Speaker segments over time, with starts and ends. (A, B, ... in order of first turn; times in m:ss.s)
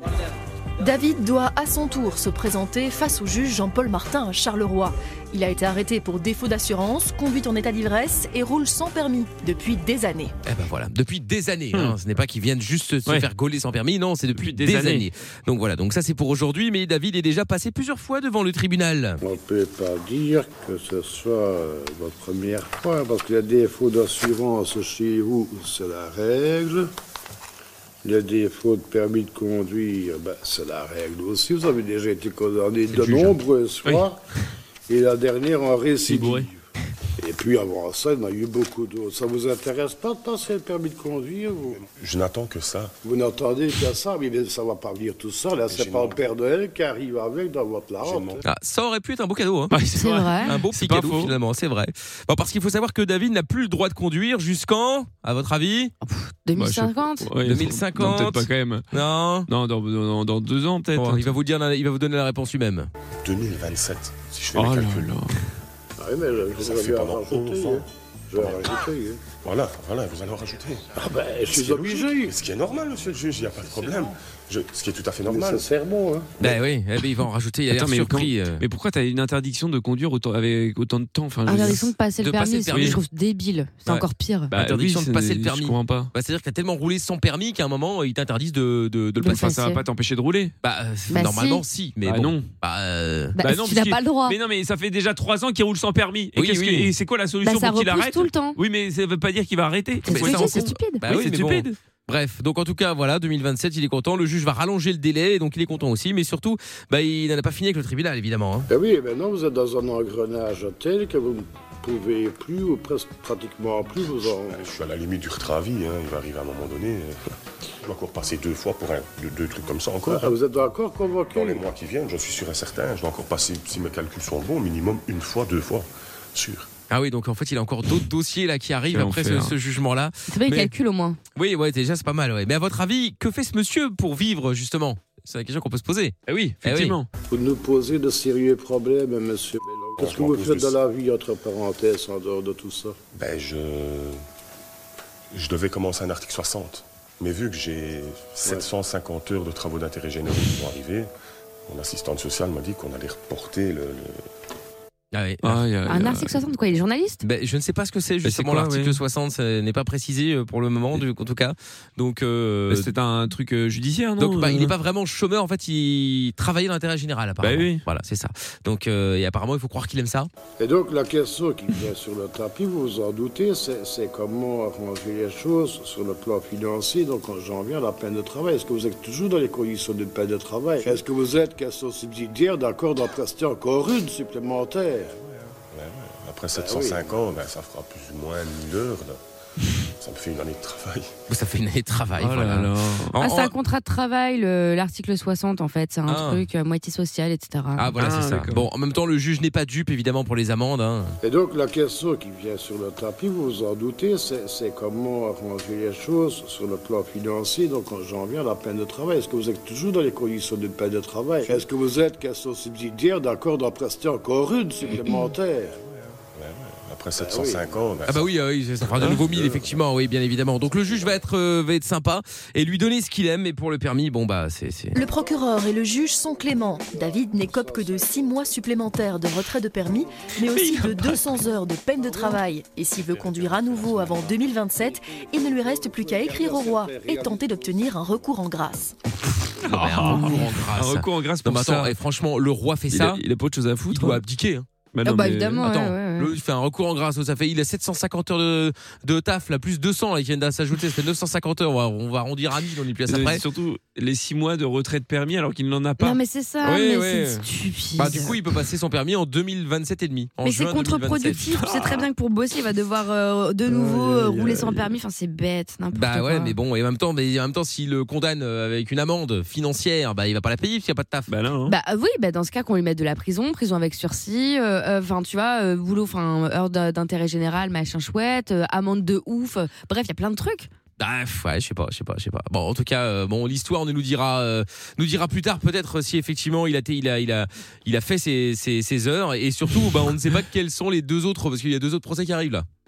0:00.8-0:10.3 A
0:10.4-0:19.2 B
0:14.4-0:15.1 C
0:19.2-0:26.9 D
0:28.0-0:34.2 D
0:34.9-0:36.6 D
0:36.1-0:36.5 C
0:37.2-0:41.8 D
0:41.7-0:43.0 E
0:43.0-0:48.4 D
0:45.7-0:46.2 E
0:48.0-0:48.4 E
0:48.4-0:49.8 B
0:49.7-0:51.3 C
0:50.0-0:50.5 F
0:50.4-0:55.9 B
0:56.0-0:57.3 F
0:56.6-0:58.9 C
0:57.4-0:59.5 B
0:59.5-1:01.3 C
1:01.0-1:02.9 B
1:03.2-1:05.1 E
1:04.6-1:05.4 C
1:06.0-1:09.2 D
1:06.5-1:07.8 E
1:08.4-1:11.0 E
1:11.0-1:12.4 D
1:11.5-1:15.6 E
1:15.2-1:16.3 D
1:16.4-1:18.6 B
1:17.7-1:21.9 C
1:21.5-1:24.5 F
1:21.6-1:23.0 B
1:22.7-1:23.0 C
1:23.9-1:29.6 B
1:24.5-1:26.1 C
1:29.2-1:29.8 F
1:29.3-1:30.5 C
1:30.6-1:33.4 B
1:31.1-1:31.6 F
1:32.0-1:32.5 C
1:33.4-1:34.4 F
1:33.4-1:41.8 C
1:36.4-1:36.9 B
1:37.4-1:38.6 F
1:40.0-1:41.0 F
1:40.1-1:48.7 B
1:48.7-1:54.7 D
1:54.3-2:00.3 E
2:00.1-2:01.6 D
2:01.3-2:06.7 E
2:06.9-2:10.7 B
2:08.9-2:09.6 C
2:10.3-2:11.2 F
2:11.4-2:17.0 B
2:16.3-2:17.1 C
2:17.3-2:23.0 D
2:20.0-2:20.8 E
2:23.1-2:24.2 E
2:25.3-2:31.1 E
2:31.7-2:34.2 E
2:35.1-2:36.3 B
2:35.4-2:36.1 C
2:35.9-2:37.2 F
2:37.2-2:42.9 B
2:38.2-2:39.0 C
2:42.7-2:44.7 C
2:44.2-2:50.3 B
2:47.4-2:47.8 C
2:50.6-3:05.1 D
3:05.7-3:09.2 E
3:06.5-3:07.2 D
3:10.0-3:11.2 E
3:11.3-3:13.5 B
3:12.2-3:13.2 C
3:13.2-3:17.9 F
3:16.1-3:16.4 B
3:17.8-3:21.2 B
3:18.0-3:18.7 C
3:21.2-3:35.8 D
3:36.4-3:38.4 E
3:37.2-3:37.8 D
3:38.1-3:45.0 B
3:39.3-3:39.7 E
3:44.9-3:59.0 A
3:46.4-3:48.4 D
3:50.4-3:51.2 C
3:52.0-3:52.4 D
3:53.1-3:57.8 D
3:53.6-3:54.0 E
3:59.6-4:03.2 B
3:59.6-4:02.0 C
4:02.9-4:04.2 C
4:03.9-4:04.7 B
4:04.9-4:05.6 C
4:05.0-4:06.4 F
4:05.6-4:13.4 B
4:13.1-4:16.2 C
4:16.0-4:18.4 F
4:16.6-4:17.5 B
4:18.0-4:21.4 B
4:20.4-4:26.6 F
4:21.6-4:22.1 C
4:25.9-4:31.3 B
4:31.3-4:31.8 C
4:31.7-4:40.7 F
4:41.0-4:52.7 B